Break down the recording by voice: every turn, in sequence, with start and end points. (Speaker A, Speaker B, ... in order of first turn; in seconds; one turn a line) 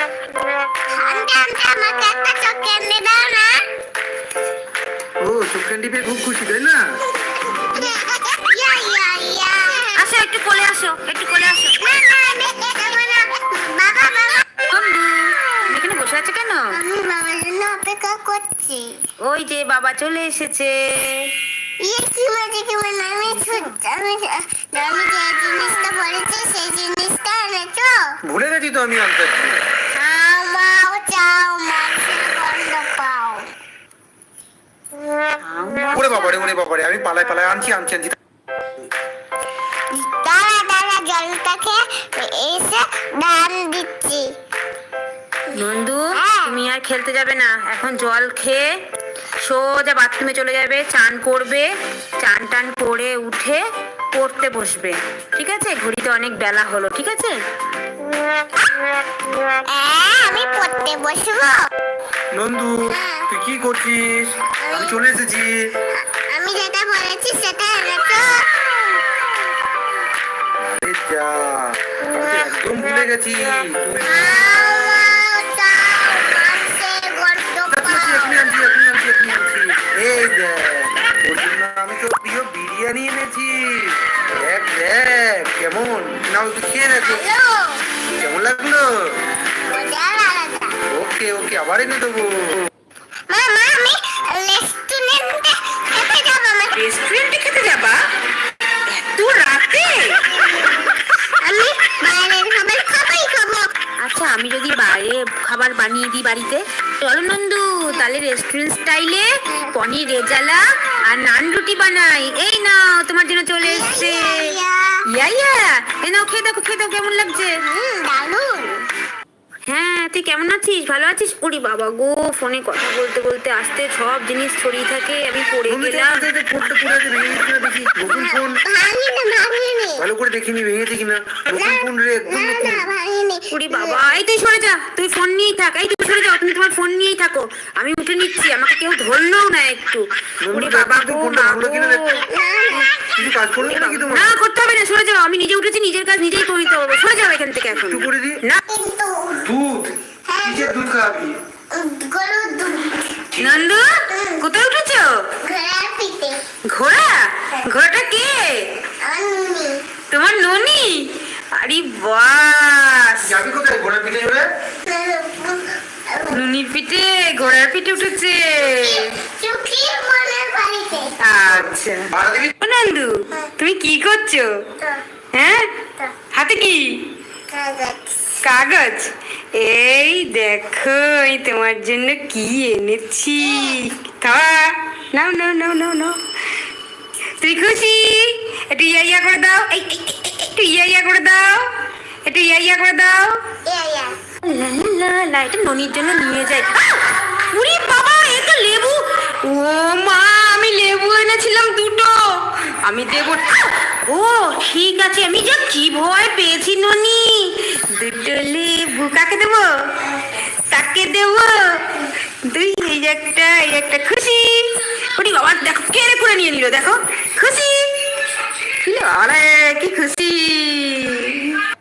Speaker A: 0.9-3.6
Speaker B: 5.2-6.8
Speaker A: 7.6-10.1
Speaker C: 9.9-11.9
Speaker A: 11.8-14.7
Speaker C: 14.7-16.8
Speaker A: 16.7-19.0
Speaker C: 19.2-21.3
Speaker A: 21.8-28.2
Speaker C: 23.3-23.7
Speaker B: 28.2-29.6
Speaker A: 29.9-33.5
Speaker C: 35.4-36.5
Speaker B: 35.9-38.2
Speaker A: 39.9-44.3
Speaker C: 45.5-48.7
Speaker A: 46.1-46.6
Speaker C: 49.4-53.6
Speaker C: 54.1-57.4
Speaker A: 58.1-58.9
Speaker A: 59.5-61.7
Speaker B: 62.3-65.5
Speaker A: 62.9-63.3
Speaker A: 64.6-65.0
Speaker A: 65.9-68.8
Speaker B: 70.6-74.5
Speaker A: 74.0-78.6
Speaker B: 77.7-87.2
Speaker A: 87.0-87.8
Speaker B: 88.1-89.2
Speaker A: 89.7-90.7
Speaker B: 90.9-92.7
Speaker A: 93.3-96.7
Speaker C: 96.7-98.0
Speaker C: 98.9-100.2
Speaker A: 100.5-100.9
Speaker A: 101.4-103.7
Speaker C: 104.0-117.6
Speaker A: 113.6-115.0
Speaker A: 117.6-118.8
Speaker C: 119.7-126.3
Speaker B: 125.7-128.6
Speaker A: 128.1-130.0
Speaker B: 130.0-132.9
Speaker A: 131.5-134.0
Speaker C: 133.5-142.2
Speaker B: 140.4-142.1
Speaker A: 142.2-143.4
Speaker B: 143.0-144.3
Speaker C: 143.6-148.6
Speaker B: 147.7-148.4
Speaker A: 148.7-149.5
Speaker B: 149.4-151.4
Speaker A: 150.3-150.7
Speaker A: 151.7-153.3
Speaker B: 153.3-153.6
Speaker C: 153.4-155.3
Speaker A: 154.1-154.4
Speaker A: 155.4-156.4
Speaker C: 156.7-158.7
Speaker A: 159.0-159.8
Speaker C: 160.1-163.3
Speaker B: 163.2-164.4
Speaker A: 164.8-166.5
Speaker C: 166.3-169.1
Speaker A: 168.6-171.2
Speaker C: 171.2-174.6
Speaker B: 171.5-172.5
Speaker C: 175.3-175.8
Speaker C: 176.3-177.1
Speaker A: 177.5-178.3
Speaker C: 178.4-186.2
Speaker A: 183.4-183.8
Speaker C: 187.4-191.7
Speaker C: 192.2-193.4
Speaker A: 193.7-194.2
Speaker C: 194.4-209.7
Speaker C: 210.7-211.9
Speaker C: 212.4-218.0
Speaker C: 218.8-221.6